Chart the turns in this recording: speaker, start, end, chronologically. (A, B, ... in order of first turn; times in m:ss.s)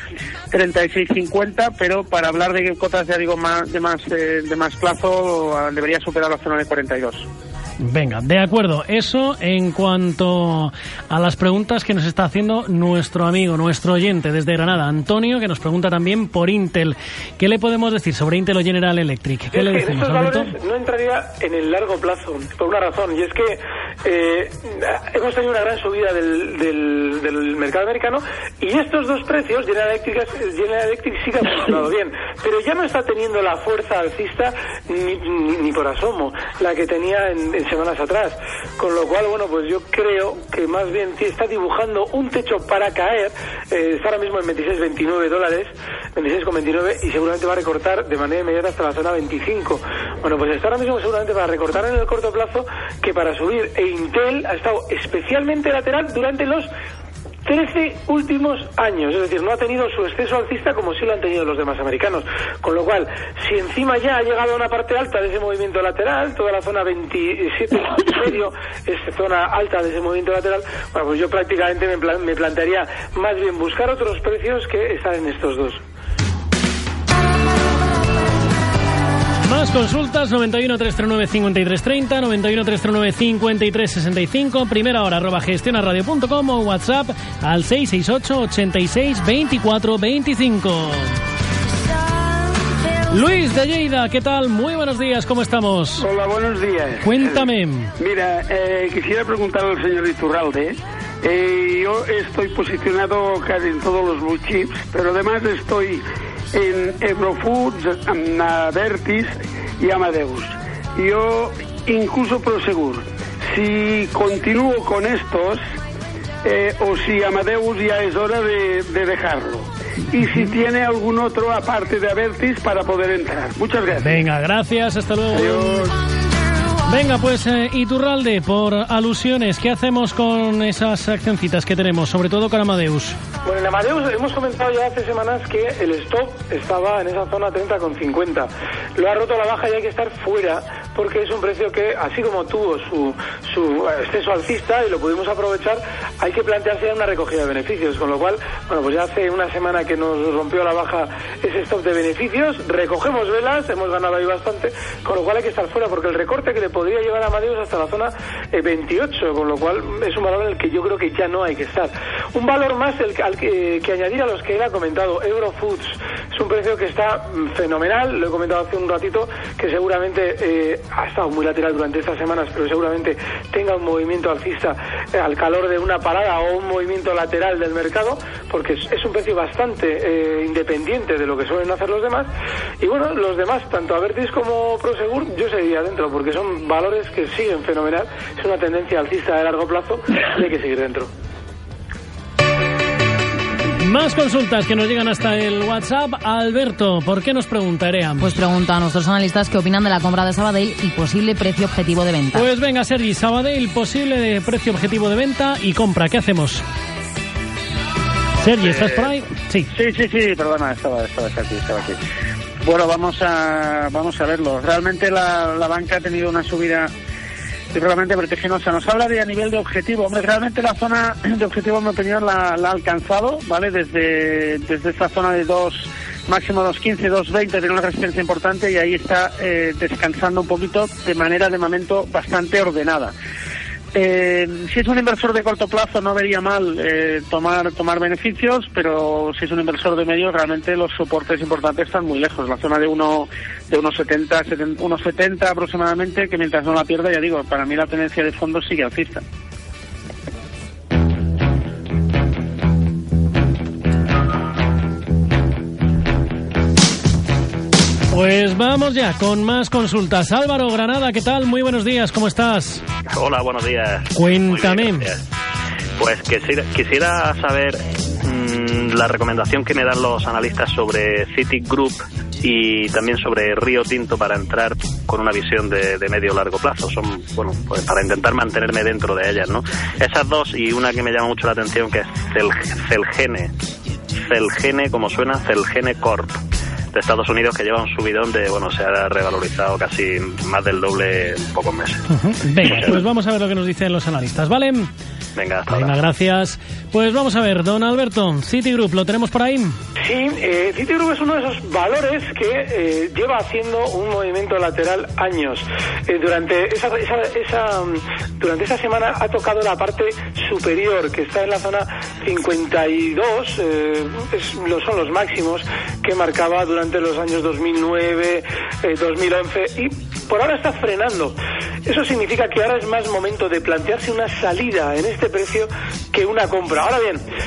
0:00.5-0:07.3 A
0:07.8-0:20.5 B
0:19.5-0:56.7 C
0:57.5-1:15.8 C
1:19.5-1:31.2 B
1:33.1-1:36.1 B
1:36.0-1:55.6 D
1:37.0-1:37.9 B
1:56.4-2:04.2 D
2:04.0-2:05.8 B
2:05.3-2:05.9 D
2:06.9-2:13.2 B
2:13.4-3:02.3 C
3:02.8-3:11.1 C
3:13.8-3:18.3 B
3:18.2-3:22.5 E
3:22.3-3:26.6 B
3:28.4-3:29.7 B
3:29.7-3:32.0 A
3:32.6-3:36.9 A
3:37.7-3:53.1 A
3:53.9-4:09.2 A
4:18.1-4:22.8 B
4:23.1-4:25.2 F
4:24.1-4:25.1 B
4:26.0-4:43.5 F
4:44.3-4:46.4 F
4:46.9-4:52.0 F
4:52.1-4:54.9 B
4:55.4-4:55.9 F
4:55.7-4:59.7 B
5:00.0-5:27.2 C